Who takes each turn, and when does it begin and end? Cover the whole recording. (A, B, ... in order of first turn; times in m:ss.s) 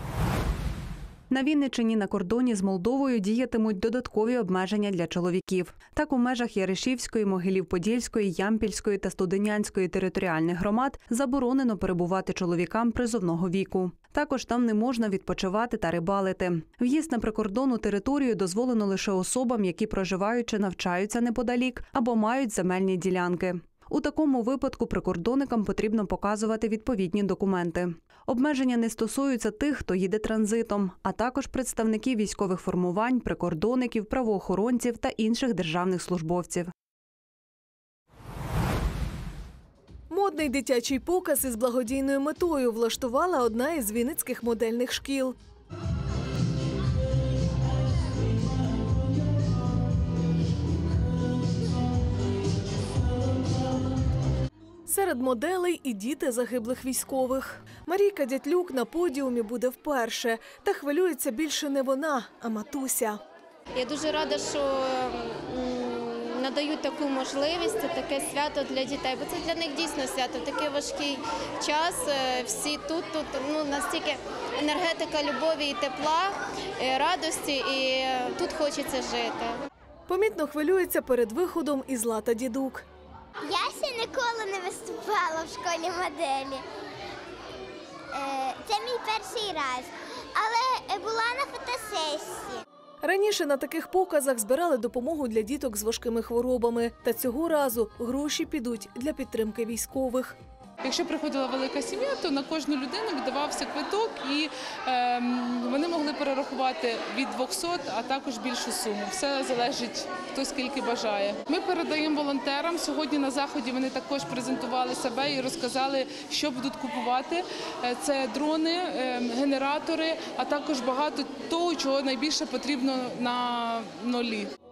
0:01.3-0:36.7 A
0:40.1-0:45.4 B
0:54.9-1:03.2 B
1:03.8-1:19.6 C
1:20.1-1:22.8 B
1:23.4-1:26.6 D
1:28.1-1:32.6 D
1:33.0-1:40.4 B
1:40.8-2:04.5 E